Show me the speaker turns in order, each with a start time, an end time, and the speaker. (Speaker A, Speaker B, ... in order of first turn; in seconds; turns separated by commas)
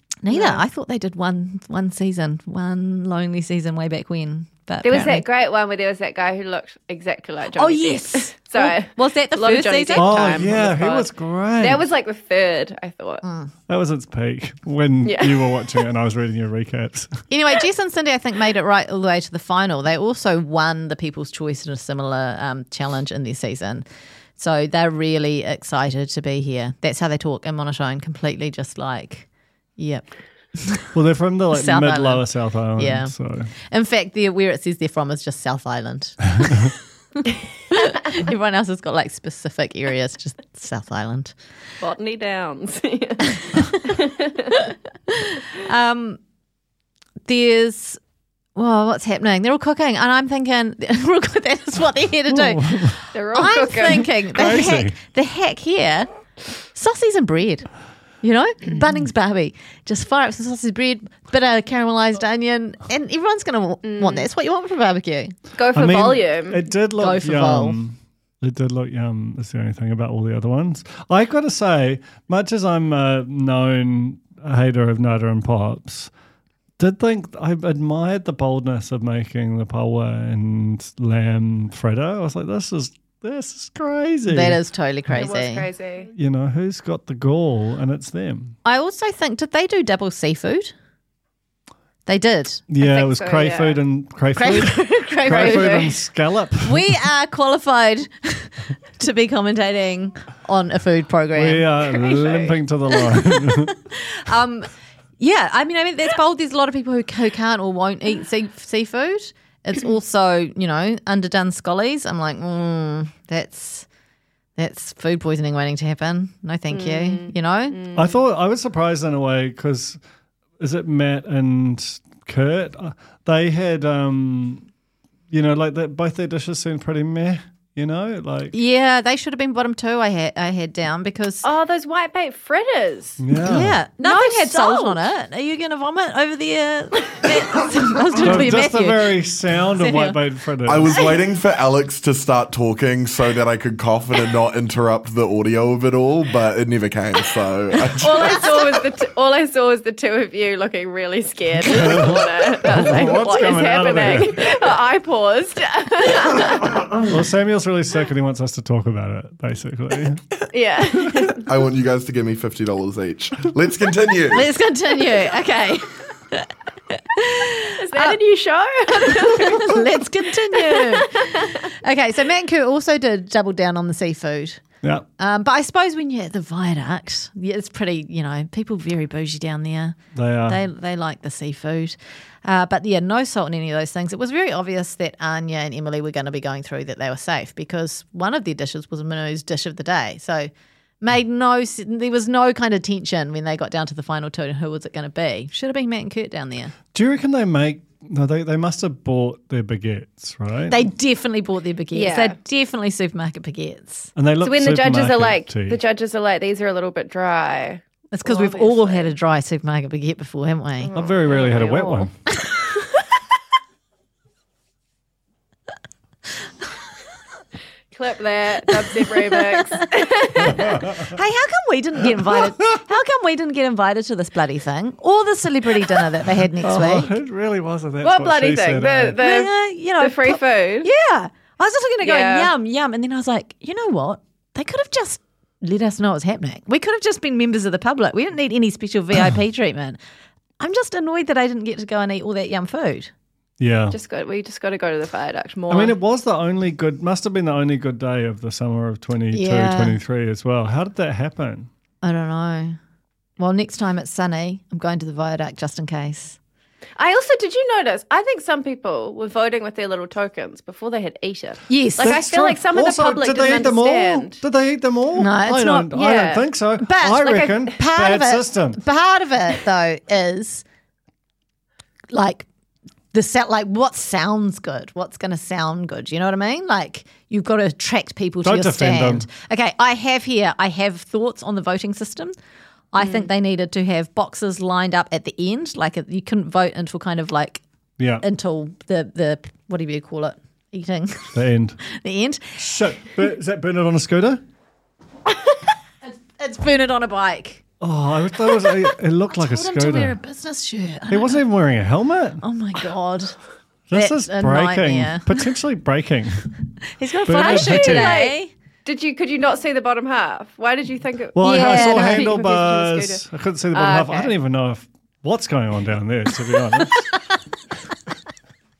Speaker A: 0.2-5.2, Speaker B: 0.3-0.6, Speaker B: 4.8-13.2, Speaker A: 7.5-10.6, Speaker C: 10.0-11.8, Speaker A: 13.2-13.5, Speaker C: 13.7-17.1, Speaker B: 15.0-15.8, Speaker A: 17.3-23.9, Speaker A: 24.4-30.9, Speaker C: 30.9-33.5, Speaker A: 31.5-32.2, Speaker A: 32.8-33.1, Speaker A: 33.6-41.3, Speaker B: 41.8-44.6, Speaker A: 45.1-46.2, Speaker A: 47.2-48.0, Speaker A: 48.5-56.1, Speaker C: 52.3-53.0, Speaker B: 53.1-54.1, Speaker C: 54.3-54.9, Speaker A: 56.7-57.7, Speaker A: 58.2-65.3, Speaker B: 63.8-64.3, Speaker B: 65.5-66.6, Speaker C: 65.7-76.1, Speaker A: 67.0-67.8, Speaker C: 76.8-85.2, Speaker A: 84.3-85.7, Speaker B: 85.1-86.1, Speaker C: 86.1-88.5, Speaker A: 88.6-90.7, Speaker A: 92.0-92.7, Speaker C: 92.7-96.8, Speaker B: 92.8-93.8, Speaker A: 94.3-95.9, Speaker B: 94.5-96.0, Speaker A: 96.6-101.7, Speaker C: 101.3-103.7, Speaker B: 101.9-102.6, Speaker A: 102.9-113.9, Speaker A: 114.5-117.8, Speaker B: 116.7-118.2, Speaker C: 117.9-120.0, Speaker C: 120.6-124.7, Speaker C: 125.3-128.5, Speaker A: 128.5-131.4, Speaker B: 131.4-133.2, Speaker C: 133.2-133.7, Speaker A: 133.4-139.2, Speaker B: 134.0-135.0, Speaker C: 138.2-141.0, Speaker A: 139.8-140.2, Speaker D: 140.6-148.5, Speaker B: 148.0-156.8, Speaker C: 151.6-154.4, Speaker C: 157.0-160.2, Speaker B: 160.5-161.4, Speaker D: 161.4-164.5, Speaker A: 164.3-168.2, Speaker B: 167.7-169.9, Speaker A: 168.9-174.6, Speaker B: 170.5-171.6, Speaker A: 175.2-190.5, Speaker C: 180.1-180.6, Speaker A: 191.0-196.7, Speaker C: 196.9-200.8, Speaker A: 200.7-204.1, Speaker B: 201.9-202.3, Speaker C: 204.2-205.8, Speaker B: 204.4-209.1, Speaker A: 208.1-210.9, Speaker B: 210.8-212.1, Speaker C: 210.9-212.1, Speaker B: 217.9-220.8, Speaker A: 219.2-227.1, Speaker C: 226.6-229.2, Speaker B: 228.0-230.9, Speaker A: 229.2-240.0, Speaker B: 232.0-232.5, Speaker A: 240.6-243.1, Speaker C: 243.6-244.0, Speaker B: 243.9-245.9, Speaker C: 245.7-251.7, Speaker A: 249.3-250.0, Speaker A: 252.0-252.8, Speaker A: 253.4-256.4, Speaker B: 257.0-264.4, Speaker A: 261.7-262.6, Speaker C: 262.7-268.8, Speaker A: 265.1-265.9, Speaker B: 265.9-266.4, Speaker A: 266.8-270.6, Speaker B: 267.2-267.6, Speaker A: 272.1-272.5, Speaker A: 273.1-282.3, Speaker C: 278.4-279.2, Speaker A: 282.9-287.6, Speaker C: 288.0-288.2, Speaker A: 288.2-292.6, Speaker C: 291.3-291.8, Speaker C: 292.6-294.4, Speaker A: 296.0-297.6, Speaker C: 297.8-300.1, Speaker A: 299.3-301.4, Speaker C: 301.1-302.4, Speaker A: 302.4-303.3, Speaker C: 303.9-306.5, Speaker A: 303.9-305.4, Speaker A: 307.0-308.5, Speaker C: 307.2-308.2, Speaker B: 307.3-314.3, Speaker C: 311.4-317.0, Speaker A: 311.4-312.3